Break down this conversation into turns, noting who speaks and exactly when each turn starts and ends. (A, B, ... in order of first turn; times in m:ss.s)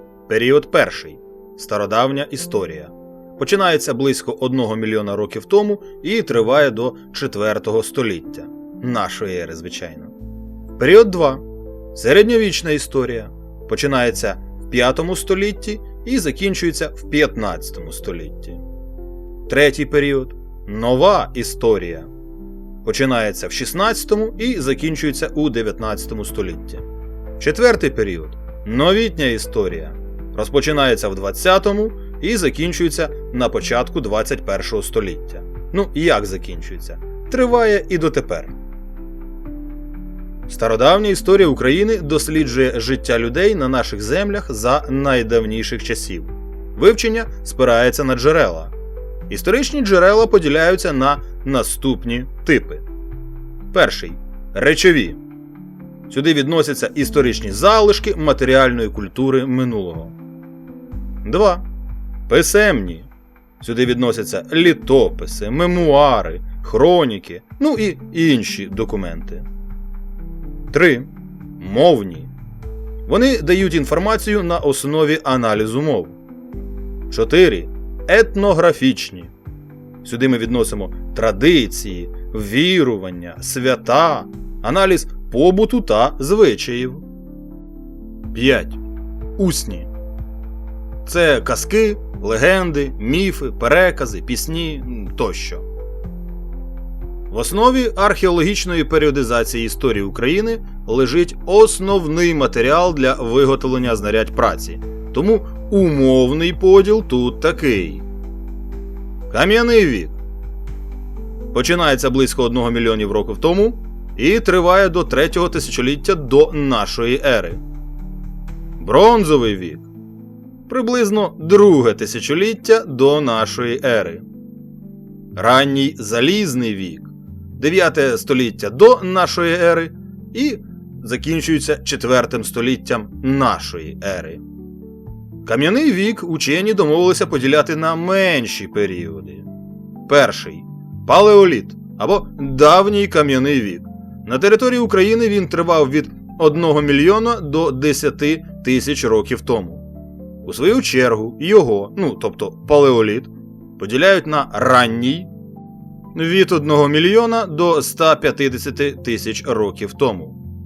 0:00.3-0:10.1 A
0:10.8-0:18.6 A
0:19.5-0:22.1 A
0:22.8-0:26.8 A
0:27.4-0:38.5 A
0:40.5-0:48.7 A
0:49.3-0:52.8 A
0:53.7-0:55.2 A
0:56.1-1:00.2 A
1:01.2-1:01.6 A
1:02.3-1:03.1 A
1:03.6-1:09.4 A
1:10.7-1:12.3 A
1:13.0-1:16.2 A
1:17.1-1:19.3 A
1:20.0-1:27.0 A
1:28.3-1:28.8 A
1:29.4-1:29.9 A
1:31.0-1:35.6 A
1:37.3-1:48.0 A
1:49.3-1:50.2 A
1:51.5-1:57.6 A
1:58.8-1:59.9 A
2:00.7-2:04.2 A
2:05.3-2:14.4 A
2:15.4-2:19.5 A
2:20.0-2:29.8 A
2:30.4-2:35.3 A
2:36.1-2:40.4 A